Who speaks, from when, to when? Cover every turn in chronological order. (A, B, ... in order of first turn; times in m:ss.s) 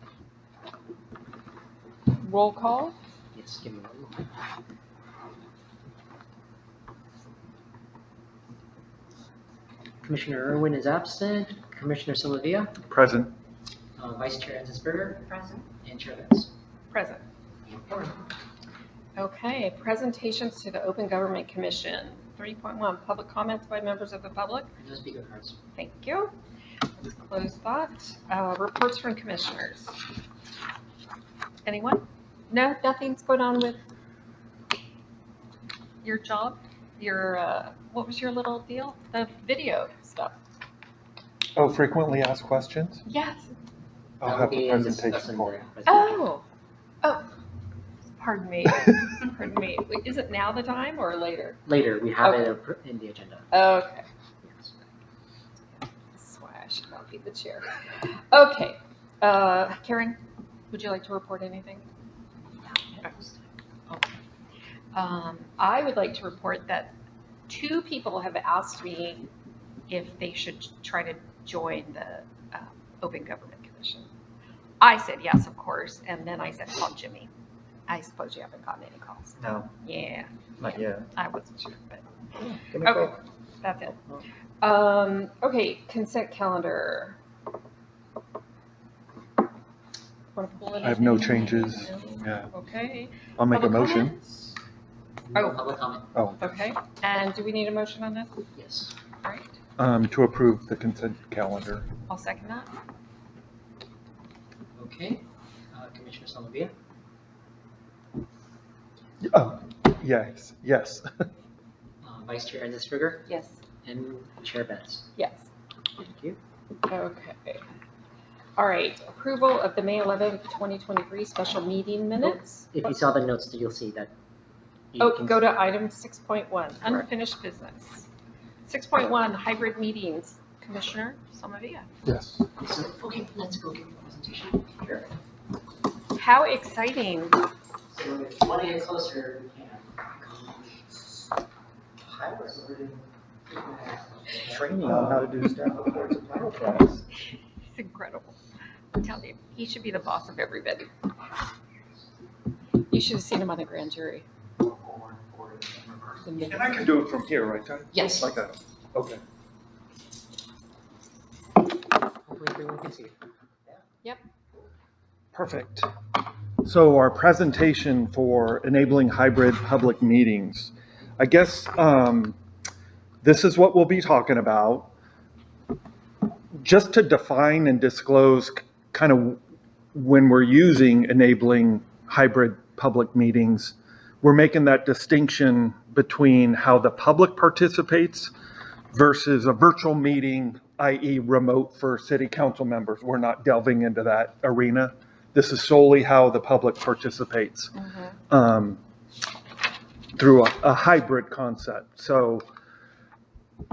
0:02.1-0:02.9 A
0:03.3-0:04.2 B
0:10.0-0:12.7 B
0:12.9-0:13.3 C
0:14.0-0:16.5 B
0:15.3-0:15.6 A
0:16.9-0:17.2 A
0:17.6-0:18.2 B
0:19.2-0:24.7 A
0:24.8-0:25.6 B
0:25.8-0:26.3 A
0:27.0-0:29.9 A
0:31.6-0:33.8 A
0:36.0-0:40.3 A
0:41.6-0:43.0 C
0:43.0-0:43.5 A
0:44.2-0:45.6 C
0:44.2-0:46.2 B
0:45.9-0:46.4 A
0:48.2-0:51.6 A
0:51.6-0:53.5 B
0:53.5-0:54.0 A
0:54.4-0:54.7 B
0:56.1-1:00.2 A
1:00.7-1:01.8 A
1:02.9-1:03.3 A
1:03.9-1:04.2 A
1:04.9-1:06.9 A
1:07.5-1:09.3 A
1:09.9-1:14.1 A
1:14.8-1:17.3 A
1:17.9-1:22.0 A
1:20.6-1:21.0 C
1:22.7-1:24.0 A
1:24.6-1:27.2 A
1:30.3-1:34.5 A
1:30.8-1:32.5 C
1:33.4-1:34.1 C
1:35.3-1:36.1 B
1:35.3-1:35.6 A
1:36.1-1:36.4 C
1:36.4-1:38.3 A
1:38.5-1:38.9 B
1:39.2-1:39.5 A
1:39.8-1:41.8 C
1:42.1-1:42.7 A
1:44.8-1:46.7 B
1:49.2-1:51.2 C
1:52.0-1:53.3 B
1:53.3-1:53.6 A
1:53.8-1:55.0 B
1:55.2-1:55.5 A
1:56.0-1:56.4 B
1:56.9-1:57.6 A
1:58.6-2:02.7 A
2:02.2-2:04.1 B
2:04.9-2:05.4 B
2:05.0-2:08.1 A
2:08.7-2:11.9 A
2:12.0-2:12.4 C
2:12.6-2:15.1 B
2:16.1-2:17.4 A
2:17.9-2:21.2 B
2:22.0-2:25.1 B
2:24.5-2:27.0 C
2:27.7-2:28.4 A
2:28.9-2:30.9 A
2:32.8-2:34.2 A
2:34.6-2:39.2 C
2:36.2-2:36.7 A
2:42.2-2:43.1 B
2:45.3-2:45.9 C
2:46.6-2:52.4 C
2:53.2-2:54.9 C
2:56.6-2:59.4 C
2:59.9-3:08.3 C
3:08.9-3:17.7 C
3:17.8-3:18.1 A
3:18.3-3:18.8 C
3:20.2-3:22.4 C